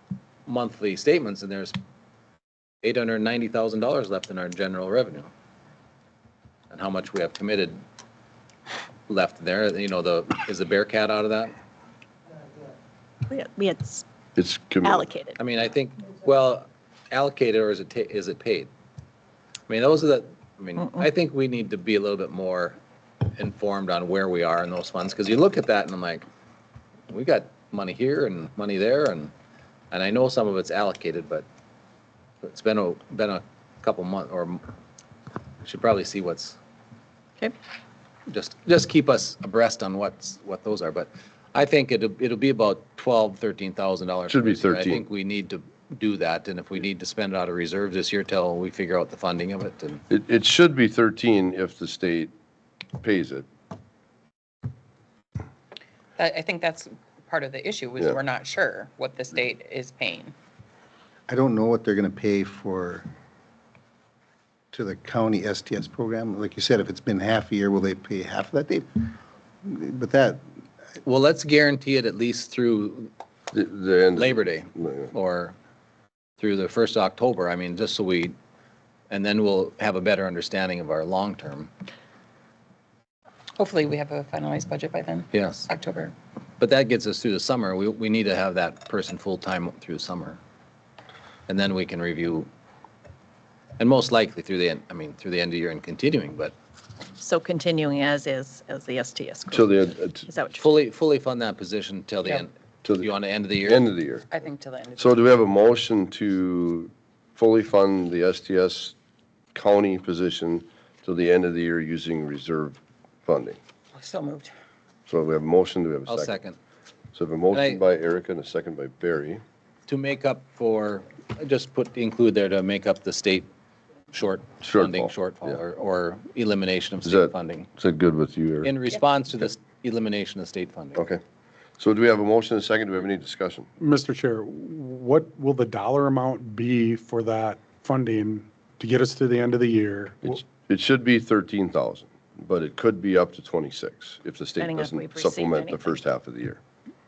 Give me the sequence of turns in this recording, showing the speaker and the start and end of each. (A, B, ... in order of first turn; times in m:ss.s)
0:00.5-0:01.8 A
0:02.8-0:05.3 A
0:06.7-0:07.8 A
0:09.1-0:11.5 A
0:13.3-0:14.0 B
0:14.4-0:15.0 C
0:14.8-0:15.4 B
0:15.4-0:18.7 A
0:19.7-0:22.8 A
0:23.4-0:26.2 A
0:27.1-0:29.3 A
0:29.9-0:31.4 A
0:32.4-0:34.6 A
0:35.6-0:36.6 A
0:38.3-0:50.0 A
0:44.3-0:45.0 C
0:50.1-0:52.3 C
0:53.0-0:53.4 C
0:56.2-1:00.4 D
1:01.3-1:03.0 E
1:04.7-1:10.4 E
1:11.0-1:13.1 A
1:13.5-1:15.1 C
1:14.2-1:15.5 A
1:16.4-1:18.3 A
1:19.1-1:21.7 A
1:23.6-1:26.1 D
1:25.3-1:25.6 A
1:26.6-1:30.4 A
1:31.5-1:32.5 A
1:33.8-1:36.5 A
1:37.2-1:40.6 B
1:39.5-1:40.3 C
1:40.6-1:43.8 A
1:42.8-1:43.1 C
1:43.6-1:44.3 C
1:44.3-1:45.3 D
1:45.0-1:48.9 C
1:49.5-1:53.6 C
1:53.9-1:54.5 D
1:55.1-1:56.4 C
1:56.1-1:56.6 A
1:57.1-1:59.4 C
1:57.5-1:57.8 A
1:59.9-2:03.5 A
2:04.1-2:07.7 A
2:04.6-2:05.6 C
2:07.0-2:08.7 C
2:08.6-2:11.0 A
2:11.0-2:11.2 C
2:11.8-2:13.7 C
2:13.8-2:20.4 F
2:20.2-2:26.6 C
2:24.6-2:26.0 B